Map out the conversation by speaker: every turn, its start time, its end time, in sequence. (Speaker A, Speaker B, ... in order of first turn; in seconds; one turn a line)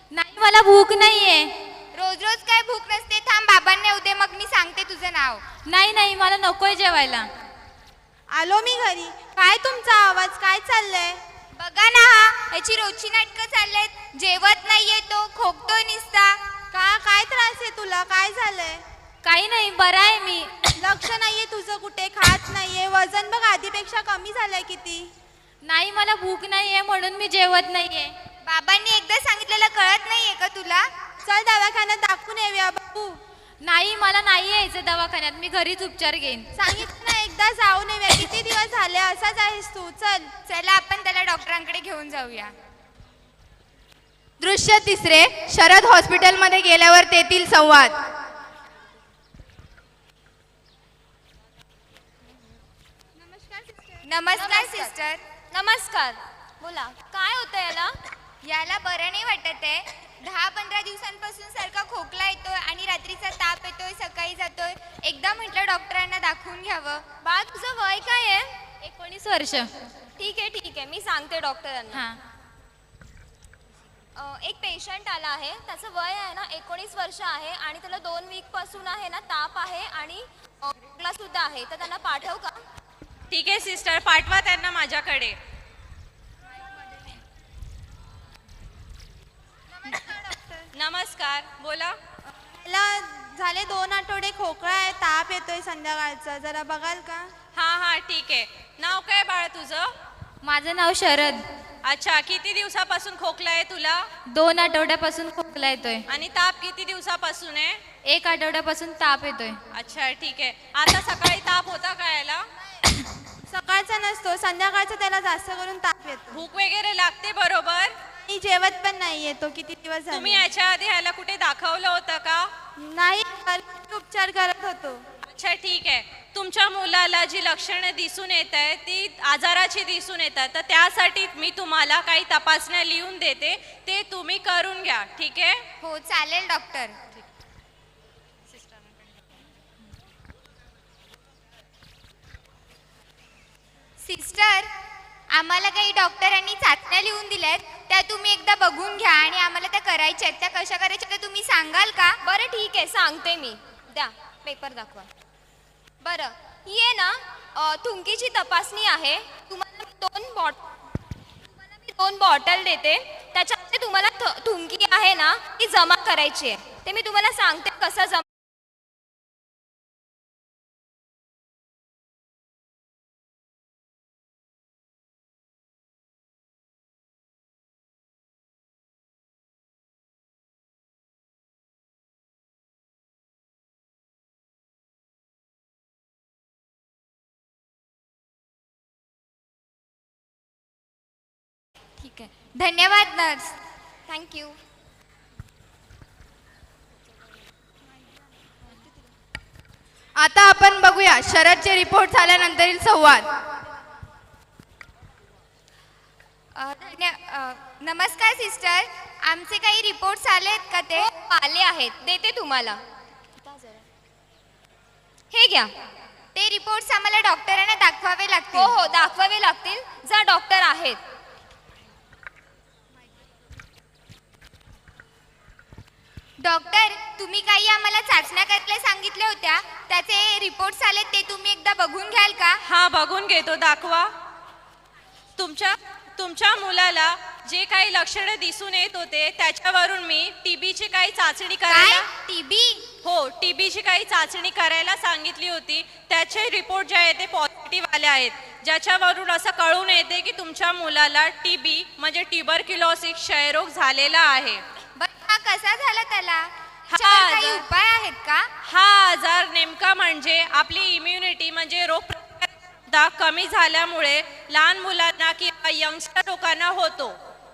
Speaker A: 0.1-1.5
Speaker B: 1.9-5.4
Speaker A: 5.7-7.3
Speaker C: 8.3-11.2
Speaker B: 11.6-16.4
Speaker C: 16.7-18.8
Speaker A: 19.2-20.7
Speaker C: 20.8-25.1
Speaker A: 25.6-28.1
Speaker B: 28.4-30.9
Speaker C: 31.2-33.2
Speaker A: 33.6-36.5
Speaker C: 36.5-40.3
Speaker B: 40.5-42.5
Speaker D: 44.4-48.0
Speaker C: 53.2-54.0
Speaker B: 54.0-55.2
Speaker E: 54.3-54.9
Speaker E: 55.5-58.0
Speaker B: 58.4-67.0
Speaker E: 67.2-68.5
Speaker A: 68.8-69.7
Speaker E: 70.2-72.0
Speaker A: 71.9-72.2
Speaker E: 74.2-82.6
Speaker F: 83.3-85.4
Speaker C: 89.8-90.7
Speaker F: 90.7-92.0
Speaker C: 92.4-97.3
Speaker F: 97.5-99.9
Speaker A: 100.4-101.4
Speaker F: 101.8-104.0
Speaker A: 104.3-106.0
Speaker F: 106.1-107.8
Speaker A: 108.0-109.6
Speaker F: 109.7-112.4
Speaker C: 113.5-116.3
Speaker F: 116.3-117.9
Speaker C: 118.2-120.4
Speaker F: 120.1-122.5
Speaker C: 122.8-125.0
Speaker F: 125.3-135.6
Speaker B: 135.8-136.9
Speaker F: 138.5-139.0
Speaker B: 144.0-144.7
Speaker B: 145.3-152.2
Speaker E: 152.2-155.1
Speaker E: 156.0-160.6
Speaker E: 161.6-168.2
Speaker B: 192.0-193.5
Speaker E: 194.1-194.6
Speaker D: 200.1-203.3
Speaker B: 206.5-211.1
Speaker E: 211.0-212.8
Speaker E: 213.4-213.8
Speaker E: 215.3-215.7
Speaker B: 216.3-218.7
Speaker E: 218.5-221.0
Speaker B: 226.4-232.6
Speaker F: 232.6-234.1
Speaker F: 235.4-242.1
Speaker B: 241.7-242.8
Speaker F: 243.0-254.6
Speaker B: 255.0-258.5
Speaker F: 256.9-257.6
Speaker F: 258.6-267.2